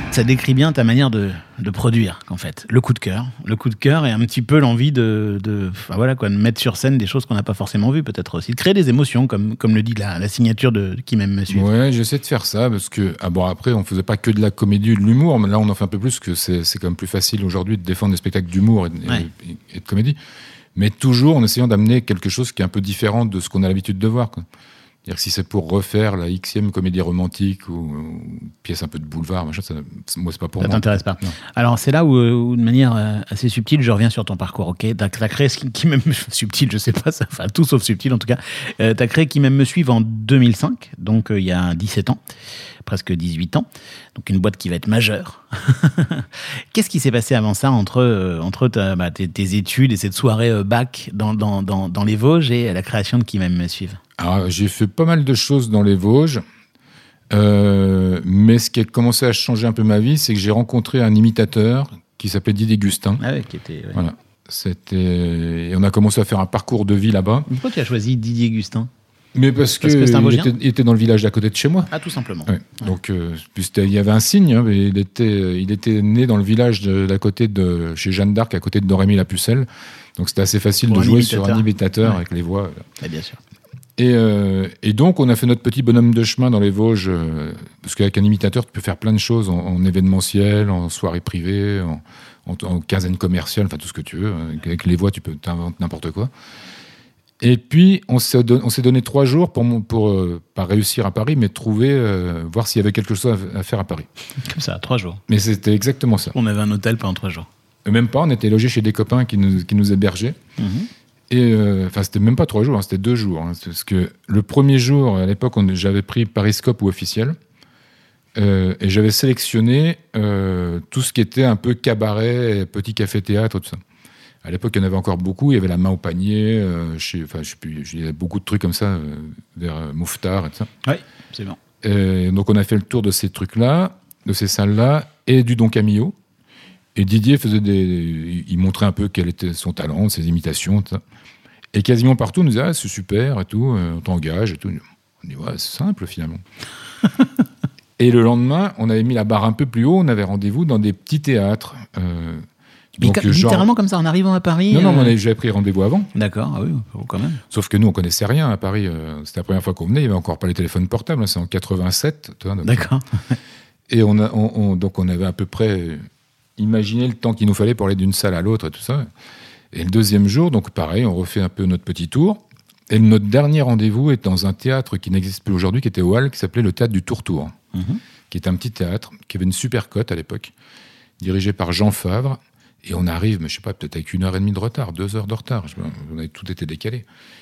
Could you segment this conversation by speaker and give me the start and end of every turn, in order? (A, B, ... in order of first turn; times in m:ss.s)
0:00.1-0:11.7 A
0:11.5-0:20.2 B
0:20.8-0:24.4 B
0:25.0-0:31.4 B
0:30.6-0:42.2 A
0:42.8-0:54.0 A
0:54.2-0:56.4 B
0:57.3-1:03.2 B
1:03.2-1:04.0 A
1:03.9-1:07.5 B
1:07.5-1:08.9 A
1:09.4-1:11.9 B
1:09.8-1:10.5 A
1:11.9-1:12.9 A
1:12.5-1:22.9 B
1:20.9-1:22.2 A
1:23.0-1:23.4 A
1:24.0-1:36.3 B
1:37.4-1:44.1 B
1:44.4-1:45.2 A
1:45.3-1:46.4 B
1:46.3-1:47.5 A
1:47.8-1:50.4 B
1:50.6-1:50.9 A
1:51.3-1:57.4 B
1:58.4-2:03.8 B
2:04.4-2:10.7 B
2:10.8-2:11.6 A
2:11.8-2:16.2 B
2:17.0-2:21.0 B
2:21.7-2:26.4 B
2:28.0-2:33.7 B
2:33.0-2:35.1 A
2:34.7-2:36.1 B
2:36.2-2:37.4 A
2:37.5-2:42.9 B
2:42.6-2:43.4 A
2:43.9-2:46.1 B
2:46.6-2:49.1 B
2:49.7-2:57.6 B
2:57.7-2:58.0 A
2:58.3-3:00.5 B
3:01.2-3:07.1 B